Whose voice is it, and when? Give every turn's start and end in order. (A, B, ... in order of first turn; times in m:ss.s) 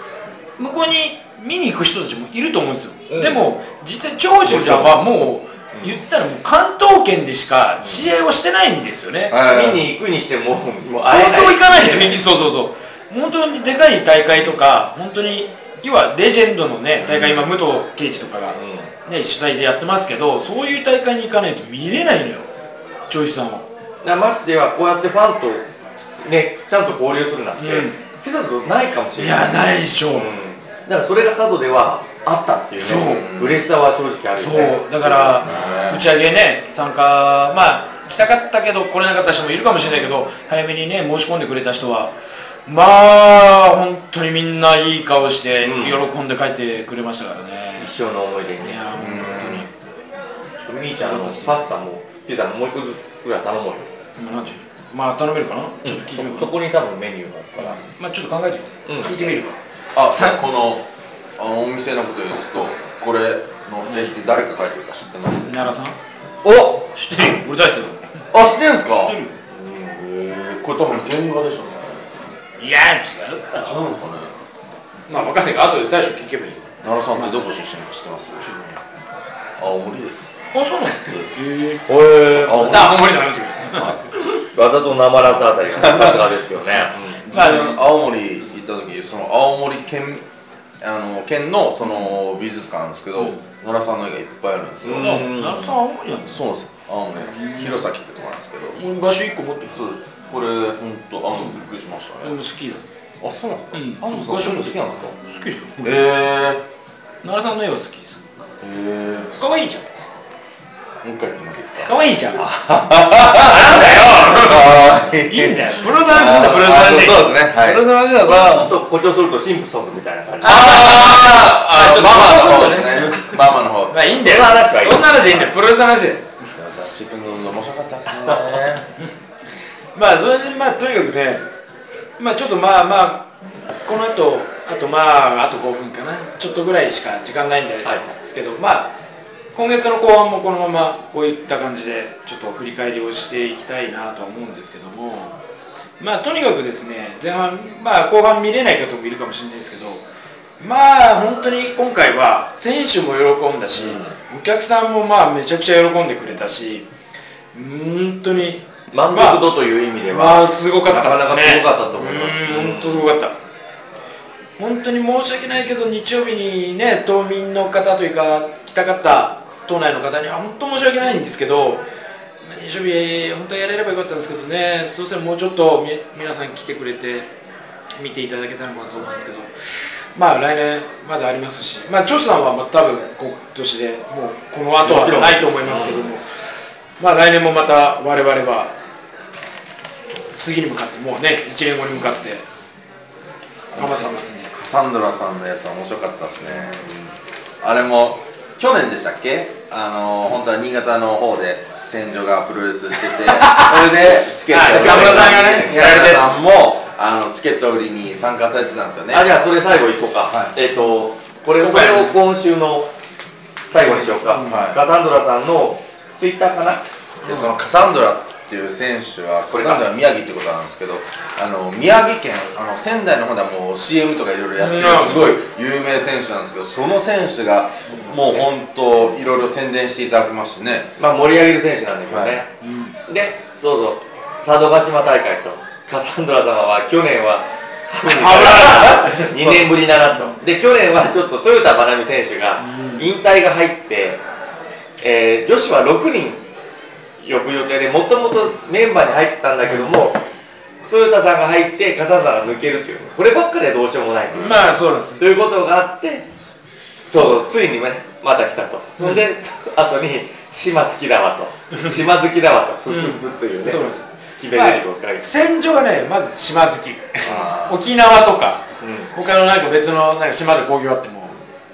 0:00.6-0:09.4 A
0:03.1-0:03.4 B
0:04.4-0:05.1 B
0:05.7-0:06.0 B
0:07.8-0:08.1 B
0:09.3-0:09.9 C
0:09.3-0:12.2 B
0:11.1-0:22.5 A
0:17.0-0:17.5 B
0:18.6-0:18.9 B
0:23.1-0:23.7 A
0:24.0-0:25.7 B
0:26.2-0:35.6 B
0:27.6-0:28.0 A
0:29.2-0:30.3 A
0:32.8-0:33.3 A
0:32.9-0:33.7 C
0:34.4-0:42.2 A
0:35.3-0:36.1 C
0:42.7-0:47.9 A
0:45.6-0:46.0 B
0:47.8-0:48.8 B
0:48.6-0:49.7 A
0:49.0-0:49.7 C
0:50.7-0:53.9 B
0:50.8-0:51.6 A
0:54.2-0:56.5 A
0:55.8-0:57.8 B
0:57.6-0:59.6 A
0:58.9-0:59.4 B
1:00.0-1:00.9 C
1:00.1-1:00.4 A
1:01.4-1:05.6 C
1:05.5-1:06.0 A
1:06.4-1:06.9 C
1:07.0-1:08.3 A
1:08.3-1:12.2 C
1:09.0-1:09.4 A
1:12.6-1:13.8 A
1:13.6-1:14.4 C
1:15.1-1:17.6 A
1:16.8-1:18.8 C
1:19.6-1:20.3 C
1:20.5-1:21.9 A
1:20.9-1:21.5 C
1:21.9-1:23.0 B
1:22.3-1:23.1 C
1:22.6-1:24.4 A
1:23.7-1:24.0 C
1:24.5-1:27.2 B
1:25.8-1:26.3 C
1:27.2-1:30.3 C
1:27.3-1:27.8 A
1:30.8-1:35.2 C
1:34.8-1:35.8 B
1:35.0-1:36.4 A
1:36.2-1:38.8 C
1:37.2-1:37.9 A
1:38.8-1:39.8 A
1:39.6-1:42.4 C
1:41.3-1:41.6 A
1:42.2-1:42.8 A
1:43.2-1:45.2 C
1:43.7-1:46.1 A
1:45.8-1:46.6 C
1:47.2-1:48.3 A
1:48.6-1:49.4 C
1:49.4-1:49.9 A
1:51.0-1:57.9 C
1:51.9-1:52.5 A
1:53.1-1:58.7 A
1:58.2-2:00.9 B
2:00.4-2:04.5 C
2:00.4-2:06.3 A
2:04.1-2:05.2 B
2:05.2-2:05.5 C
2:06.6-2:08.9 C
2:08.1-2:08.6 B
2:10.0-2:11.4 A
2:12.2-2:13.3 A
2:13.8-2:19.0 A
2:17.8-2:18.2 B
2:19.5-2:25.3 A
2:26.0-2:30.0 A
2:30.6-2:36.8 A
2:33.8-2:34.1 B
2:37.5-2:39.4 A
2:38.9-2:43.2 B
2:40.1-2:43.4 A
2:44.6-2:51.8 A
2:52.4-2:57.3 A
2:58.0-3:06.3 A
3:04.8-3:06.1 B
3:07.0-3:08.7 A
3:10.4-3:12.4 A
3:13.7-3:17.0 C
3:13.8-3:14.5 A
3:17.6-3:29.4 C
3:23.1-3:26.4 A
3:24.6-3:26.2 B
3:29.1-3:32.9 B
3:31.6-3:32.2 A
3:33.7-3:36.8 B
3:33.8-3:34.6 A
3:34.5-3:34.8 C
3:37.2-3:37.5 A
3:37.2-3:50.9 C
3:39.5-3:39.8 B
3:44.6-3:45.4 A
3:48.1-3:48.5 B
3:51.0-3:52.5 B
3:52.1-3:52.4 C
3:52.6-3:53.0 A
3:53.1-4:04.2 B
3:58.0-3:59.3 A
3:59.4-3:59.6 C
4:02.6-4:03.1 A
4:05.0-4:06.4 B
4:07.2-4:10.2 B
4:10.8-4:16.3 B
4:14.4-4:15.2 A
4:17.1-4:23.8 B
4:19.0-4:19.2 A
4:21.7-4:22.0 A
4:22.9-4:31.4 A
4:24.4-4:25.2 B
4:27.2-4:27.8 C
4:28.8-4:29.1 B